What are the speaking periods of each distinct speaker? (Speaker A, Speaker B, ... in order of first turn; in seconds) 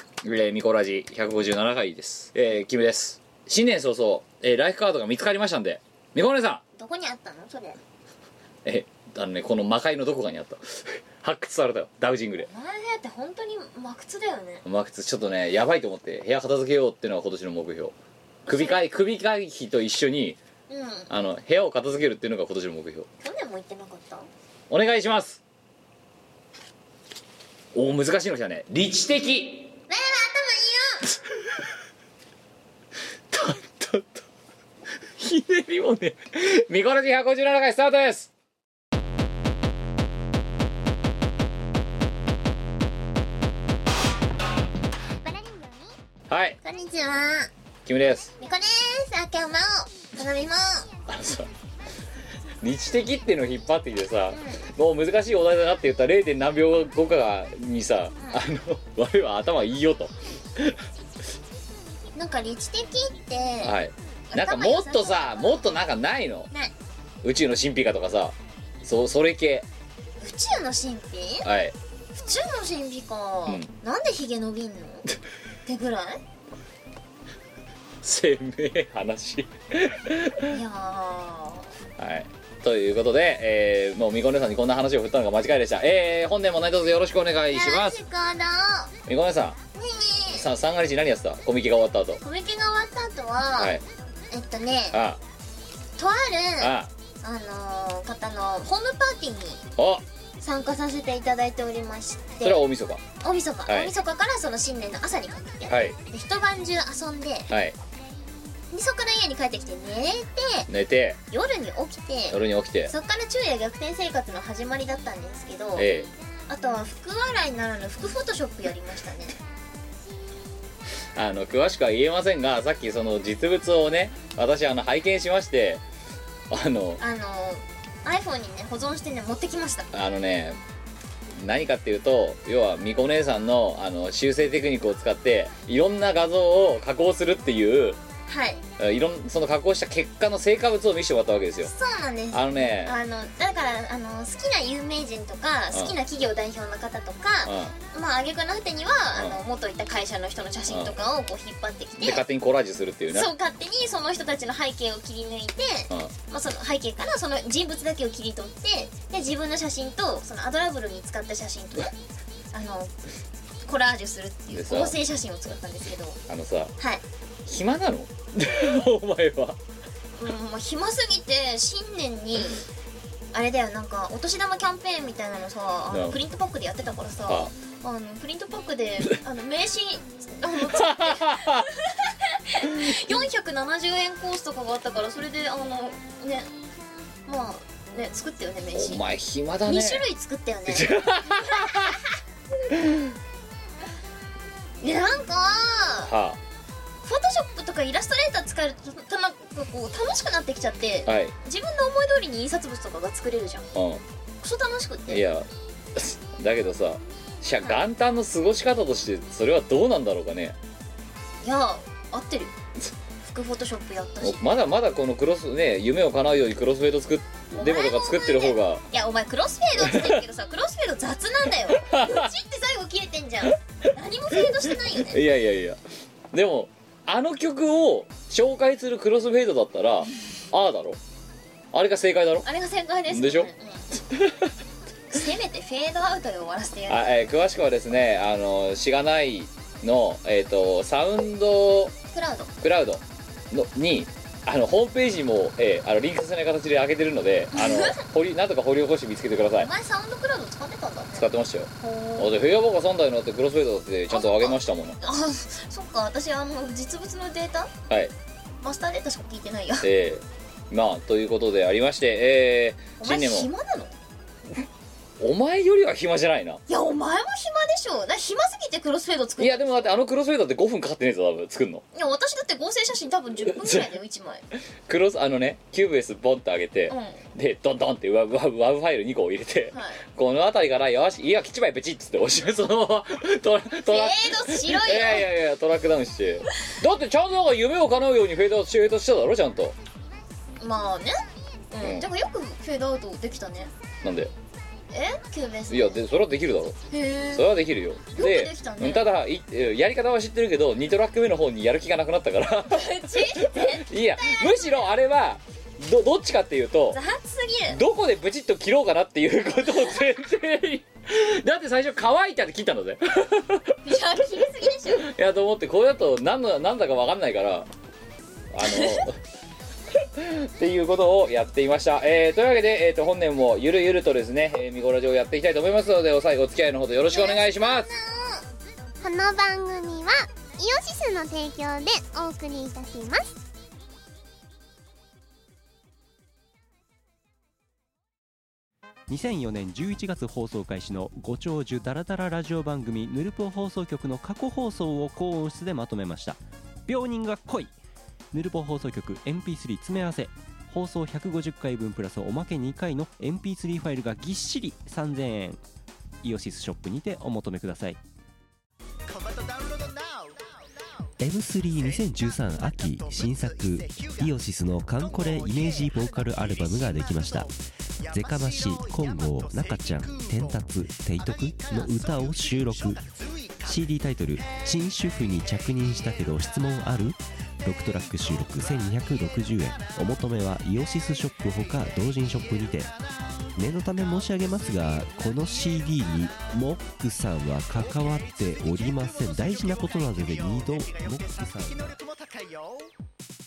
Speaker A: 0.2-6.6, 8.7-12.5, 14.7-17.9, 18.5-20.4, 21.1-23.1, 24.7-25.4, 27.7-29.8, 33.3-34.2, 35.2-38.3, 46.3-46.6, 47.9-48.3, 51.1-51.5, 52.6-60.8, 63.6-66.5, 67.2-69.7, 71.4-71.8, 78.0-80.5, 82.0-88.0, 89.1-89.6, 90.3-92.2, 93.6-93.8, 94.9-95.2, 96.6-96.9, 99.8-100.0, 102.4-103.0, 105.7-106.0, 107.5-107.8, 110.7-111.2, 112.3-112.9, 115.8-116.1, 121.2-125.8, 126.5-127.0, 129.9-130.6, 131.4-138.0, 138.8-141.7, 142.3-142.9, 147.4-147.8, 150.7-151.0, 152.0-153.3, 164.5-164.9, 166.3-166.7, 167.5-169.6, 175.9-176.2, 180.7-181.7, 188.8-190.0, 190.7-192.0, 192.7-193.1, 196.1-196.4, 201.1-201.3, 203.8-204.0, 205.1-210.6, 214.2-218.8, 219.8-220.2, 221.7-222.3, 224.7-225.8, 226.3-231.0, 231.7-232.5, 233.1-233.5, 234.1-234.5, 236.9-241.9, 242.6-249.7, 251.2-255.0, 259.8-263.5, 265.2-266.6, 269.4-271.8, 273.5-273.9, 274.9-289.8, 294.0-294.3, 295.7-296.8, 297.4-302.9, 303.5-307.0, 307.7-313.8, 315.0-317.7, 318.5-319.2, 320.2-327.9
Speaker B: 6.8-7.8, 12.4-14.6, 18.5-18.8, 20.7-21.1, 23.2-24.3, 29.9-31.0, 46.6-47.5, 48.4-50.9, 54.3-54.6, 62.1-63.8, 64.3-65.8, 70.2-71.5, 72.1-75.0, 75.7-76.2, 80.5-81.7, 87.5-88.9, 89.8-90.5, 92.2-93.8, 94.3-95.0, 96.0-99.6, 100.4-102.6, 103.2-107.5, 108.7-110.7, 111.3-115.9, 116.5-119.4, 127.0-129.9, 138.3-138.6, 141.7-152.2, 153.1-161.9, 162.5-162.9, 163.7-166.2, 170.2-172.6, 173.3-186.5, 187.3-189.1, 189.7-192.2, 194.8-196.1, 197.1-203.7, 204.4-205.2, 211.4-212.5, 213.2-214.4, 217.5-225.2, 232.4-233.8, 235.1-237.1, 242.1-242.5, 247.5-248.0, 249.6-251.3, 251.8-252.3, 254.1-257.7, 258.6-259.9, 263.0-263.9, 266.7-269.9, 271.9-274.4, 276.9-277.2, 279.7-280.0, 283.9-285.3, 290.6-293.7, 294.9-296.0, 296.9-297.5, 298.2-299.1, 302.7-304.8, 306.9-307.8, 313.8-315.1, 318.6-319.0, 327.1-328.4
Speaker C: 45.2-46.0, 329.0-333.3
Speaker D: 339.1-347.8, 348.3-355.6, 356.2-358.0, 361.2-367.5, 368.1-373.1, 373.6-382.9, 383.6-391.9